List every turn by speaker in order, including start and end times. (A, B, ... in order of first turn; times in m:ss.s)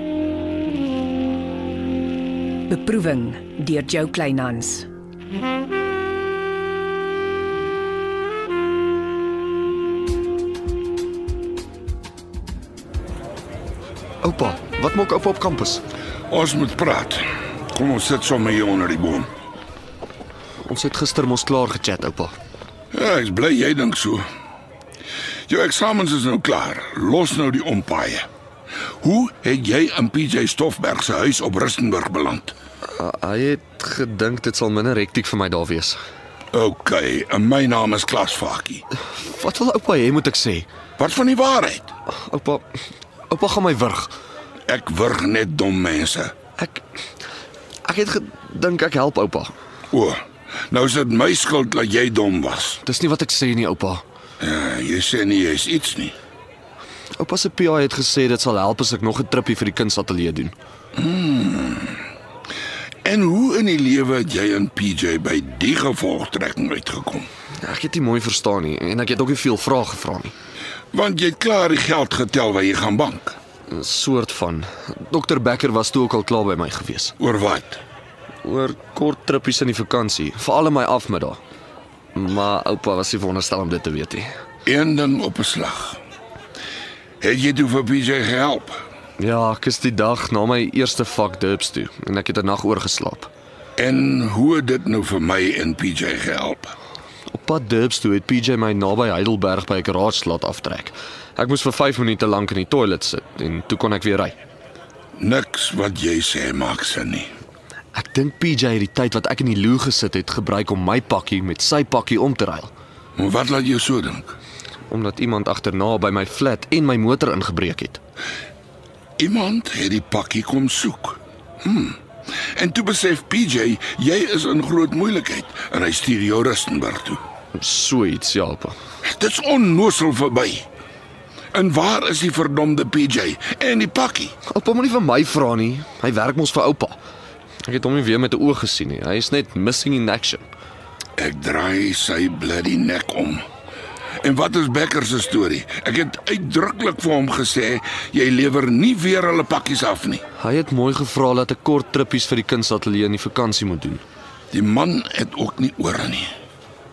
0:02.7-0:04.9 A
0:14.2-0:15.8 B
0:16.3-0:19.3 C
0:20.6-0:22.3 B
0:22.9-0:24.2 C
0:25.5-0:28.3 C
0:29.0-0:32.5 C
0:32.9-0:36.0 B
0:36.5-0:38.8 C
0:39.2-0:40.7 B
0:41.0-0:41.9 C
0:42.1-0:42.6 B
0:43.3-0:44.1 B
0:44.7-0:46.3 C
0:46.6-0:46.8 B
0:47.8-0:49.5 B
0:49.9-0:52.8 C
0:52.8-0:54.0 B
0:54.4-0:56.2 C
0:57.2-1:00.5 B
1:01.0-1:02.0 C
1:03.0-1:07.3 C
1:07.6-1:10.3 B
1:10.9-1:13.4 C
1:13.7-1:17.1 B
1:17.2-1:17.8 C
1:18.4-1:21.4 B
1:22.1-1:24.3 B
1:24.6-1:26.0 C
1:27.2-1:28.8 C
1:29.2-1:33.3 B
1:33.8-1:36.7 C
1:37.3-1:44.4 B
1:45.2-1:47.3 C
1:47.9-1:52.7 B
1:53.2-1:54.4 C
1:54.9-1:58.0 B
1:59.2-2:02.0 C
2:02.6-2:07.2 C
2:07.5-2:08.8 B
2:09.0-2:10.6 C
2:11.5-2:14.3 C
2:14.5-2:17.0 B
2:17.6-2:20.4 B
2:21.2-2:23.4 C
2:24.2-2:30.2 C
2:30.4-2:34.0 B
2:34.5-2:36.3 C